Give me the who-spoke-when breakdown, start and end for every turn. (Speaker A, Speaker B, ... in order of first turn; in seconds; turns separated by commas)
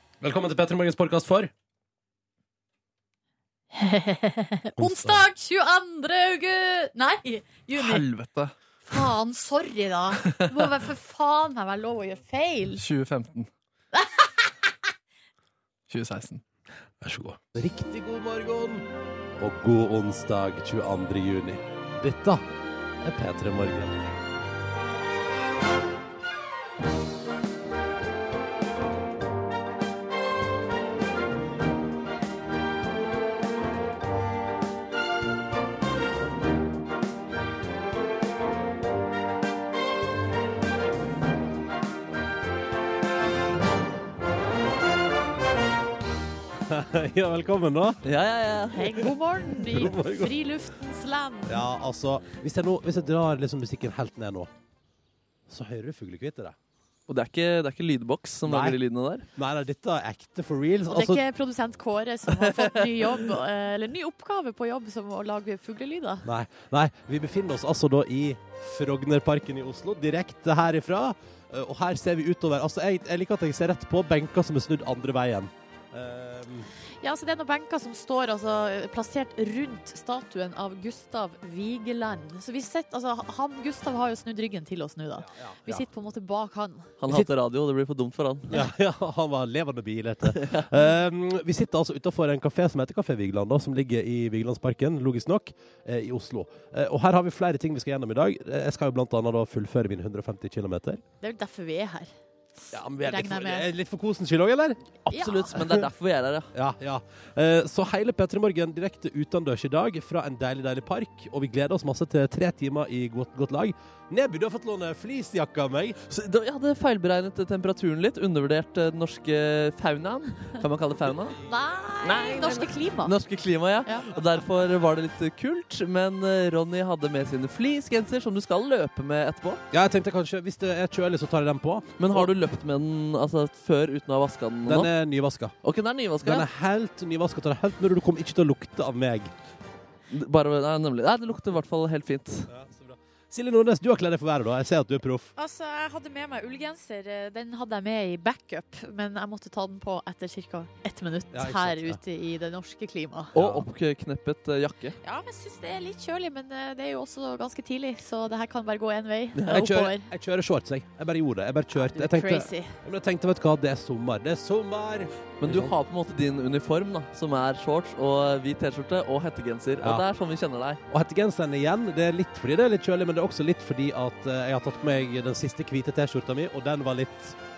Speaker A: 0.2-1.5, Speaker B: 3.7-8.0, Speaker A: 4.8-5.2, Speaker C: 7.8-8.5, Speaker B: 8.9-12.8, Speaker C: 12.8-13.5, Speaker B: 13.9-14.5, Speaker C: 15.9-16.4, Speaker A: 17.0-18.9, Speaker A: 19.4-22.4, Speaker A: 23.0-24.1, Speaker A: 46.7-48.0, Speaker C: 48.0-48.8, Speaker B: 48.7-51.7, Speaker A: 49.1-50.4, Speaker A: 51.5-54.5, Speaker A: 55.5-56.5, Speaker C: 57.1-59.2, Speaker A: 58.5-58.8, Speaker A: 59.4-61.2, Speaker B: 60.9-66.3, Speaker C: 62.4-62.8, Speaker A: 66.2-76.7, Speaker B: 77.0-86.9, Speaker A: 85.2-85.9, Speaker C: 87.0-88.6, Speaker A: 88.5-101.0, Speaker C: 90.3-90.7, Speaker B: 101.2-102.1, Speaker B: 102.7-103.7, Speaker A: 102.7-104.8, Speaker C: 105.1-106.5, Speaker B: 105.1-105.5, Speaker A: 105.5-105.8, Speaker A: 106.5-116.0, Speaker C: 116.1-121.4, Speaker B: 121.5-123.1, Speaker C: 122.0-129.6, Speaker A: 129.7-132.3, Speaker C: 132.0-134.9, Speaker A: 134.7-135.5, Speaker C: 135.6-136.5, Speaker A: 136.2-139.3, Speaker C: 140.1-142.5, Speaker A: 142.5-145.3, Speaker B: 145.4-153.3, Speaker A: 151.3-152.0, Speaker A: 153.3-153.7, Speaker C: 153.3-155.0, Speaker B: 155.0-160.1, Speaker A: 159.5-165.7, Speaker B: 161.7-162.8, Speaker C: 165.4-170.8, Speaker A: 170.9-177.4